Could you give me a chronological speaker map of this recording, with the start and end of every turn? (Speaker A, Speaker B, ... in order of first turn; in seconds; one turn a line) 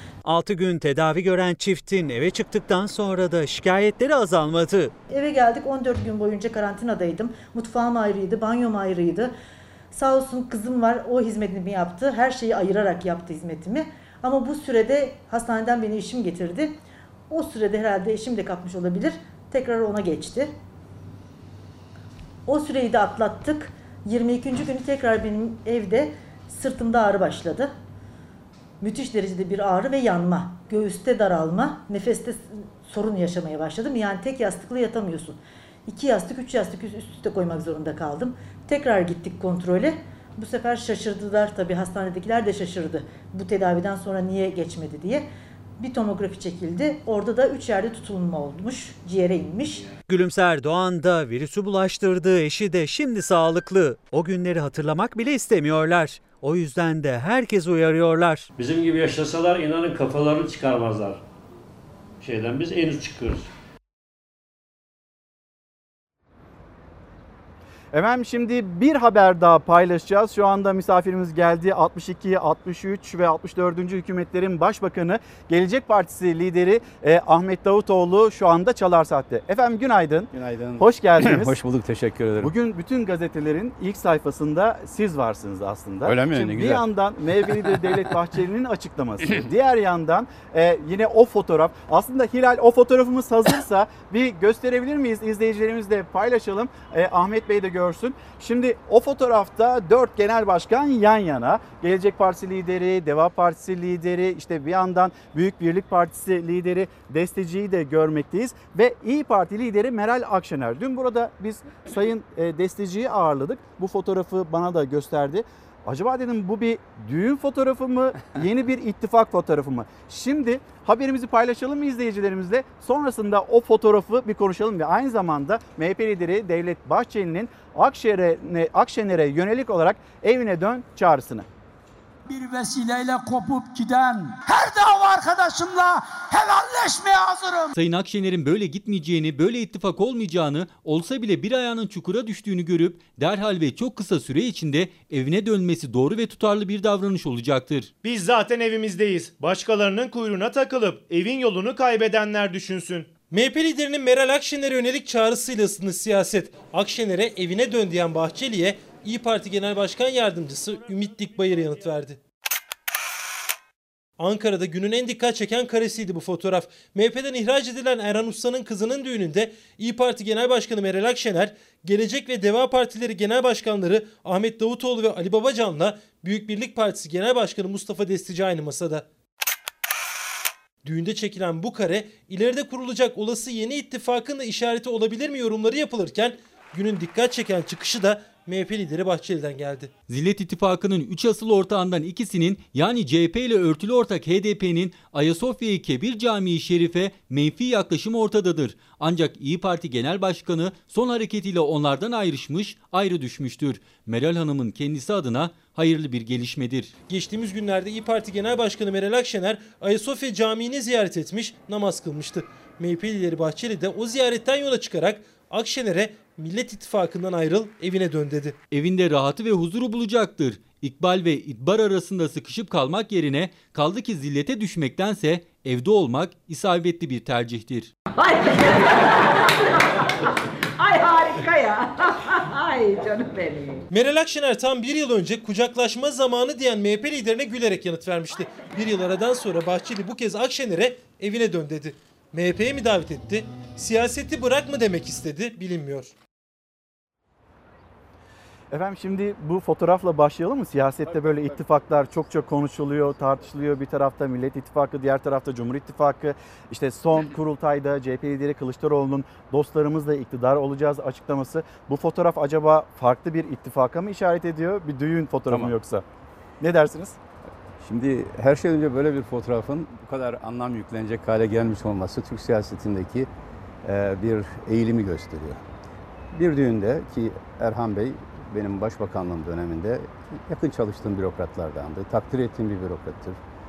Speaker A: 0.2-4.9
Speaker B: 5.1-9.3
Speaker B: 9.9-16.8
Speaker B: 17.3-20.5
Speaker B: 22.5-27.7
Speaker B: 28.8-45.3
Speaker B: 45.8-49.9
Speaker A: 50.1-58.5
Speaker C: 58.6-61.2
Speaker C: 62.2-63.5
Speaker D: 67.9-81.5
Speaker E: 80.3-82.5
Speaker D: 82.4-131.5
Speaker E: 86.0-86.9
Speaker F: 132.3-137.7
Speaker G: 137.8-147.9
Speaker H: 148.0-153.2
Speaker I: 153.3-162.2
Speaker I: 164.2-179.1
Speaker I: 180.8-189.9
Speaker G: 190.1-206.9
Speaker I: 207.1-218.6
Speaker G: 218.7-227.9
Speaker J: 228.2-230.0
Speaker J: 230.8-233.8
Speaker I: 233.9-246.1
Speaker D: 248.7-266.0
Speaker E: 251.1-252.3
Speaker E: 253.1-253.5
Speaker D: 266.6-267.2
Speaker E: 267.8-273.3
Speaker E: 273.8-275.6
Speaker E: 276.3-283.4